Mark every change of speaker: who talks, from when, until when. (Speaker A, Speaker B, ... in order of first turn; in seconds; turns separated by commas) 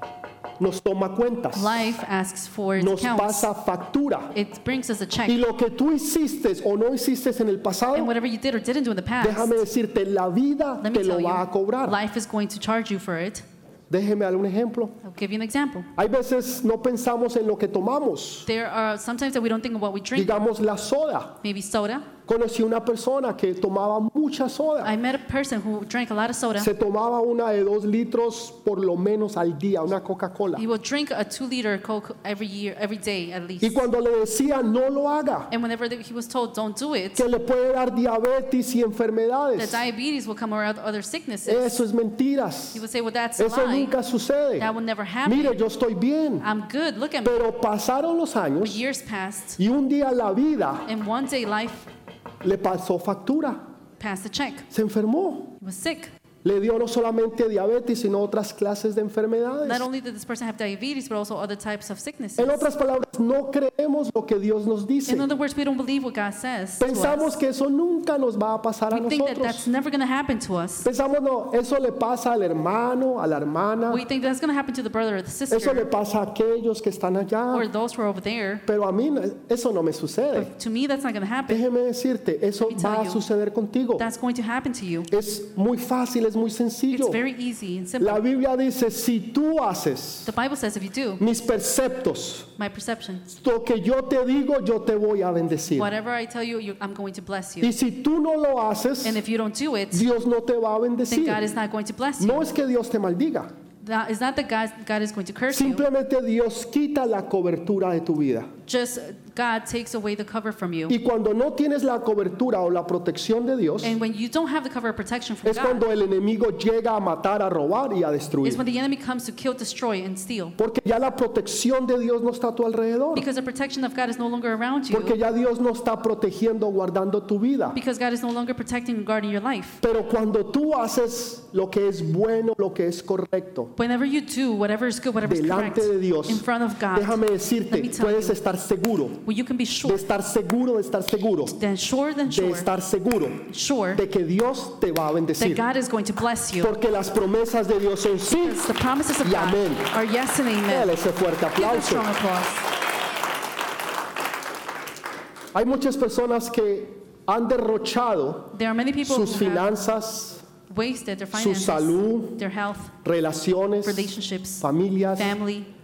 Speaker A: 0.6-1.9, Speaker B: 1.5-3.5, Speaker A: 2.8-4.3, Speaker B: 4.3-5.4, Speaker A: 5.3-8.1, Speaker B: 7.9-9.7, Speaker A: 9.2-12.0, Speaker B: 10.8-13.4, Speaker A: 13.9-15.0, Speaker B: 15.0-15.9, Speaker A: 15.9-18.5, Speaker B: 18.4-20.4, Speaker A: 20.1-21.4, Speaker B: 21.4-22.1, Speaker A: 22.2-24.9, Speaker B: 24.8-26.7, Speaker A: 26.6-30.6, Speaker B: 30.6-33.9, Speaker A: 33.6-35.5, Speaker B: 35.5-37.3, Speaker A: 37.1-39.8, Speaker B: 39.5-41.8, Speaker A: 41.5-42.8, Speaker B: 42.7-43.9, Speaker A: 43.4-44.7, Speaker B: 44.6-45.6, Speaker A: 45.2-46.5, Speaker B: 46.4-47.4, Speaker A: 47.2-48.8, Speaker B: 48.6-49.6, Speaker A: 49.6-50.9, Speaker B: 50.9-51.9, Speaker A: 52.4-53.6, Speaker B: 54.0-54.6, Speaker A: 54.7-55.5, Speaker B: 55.6-56.1, Speaker A: 56.4-59.9, Speaker B: 59.6-62.7, Speaker A: 62.4-65.3, Speaker B: 65.1-67.4, Speaker A: 66.8-69.7, Speaker B: 68.9-70.9, Speaker A: 70.8-74.0, Speaker B: 73.9-75.9, Speaker A: 75.5-77.7, Speaker B: 77.5-78.6, Speaker A: 78.7-80.5, Speaker B: 80.3-81.6, Speaker A: 81.5-84.0, Speaker B: 82.6-83.2, Speaker B: 84.0-85.1, Speaker A: 85.1-87.2, Speaker B: 86.9-88.2, Speaker A: 88.0-90.3, Speaker B: 90.2-91.2, Speaker A: 91.2-92.5, Speaker B: 92.6-93.3, Speaker A: 93.3-95.9, Speaker B: 95.7-97.7, Speaker A: 97.6-99.2, Speaker B: 99.0-100.1, Speaker A: 99.9-101.4, Speaker B: 101.1-102.5, Speaker A: 102.2-103.5, Speaker B: 103.8-105.8, Speaker A: 105.5-108.5, Speaker B: 108.6-111.0, Speaker A: 110.9-114.0, Speaker B: 113.8-115.8, Speaker A: 115.4-118.6, Speaker B: 118.4-120.5, Speaker A: 120.6-123.2, Speaker B: 123.1-125.2, Speaker A: 124.9-127.8, Speaker B: 127.7-129.8, Speaker A: 129.8-133.7, Speaker B: 133.8-138.4, Speaker A: 135.2-139.2, Speaker B: 139.2-140.0, Speaker A: 139.8-141.6, Speaker B: 141.5-142.7, Speaker A: 142.3-145.6, Speaker B: 143.5-144.0, Speaker B: 145.4-146.7, Speaker A: 146.6-148.7, Speaker B: 148.2-150.9, Speaker A: 149.2-149.9, Speaker A: 150.7-152.1, Speaker B: 151.5-152.7, Speaker A: 155.5-160.4, Speaker B: 158.5-159.7, Speaker B: 160.7-162.9, Speaker A: 161.3-162.4, Speaker A: 163.0-165.4, Speaker B: 163.8-164.6, Speaker B: 165.2-165.7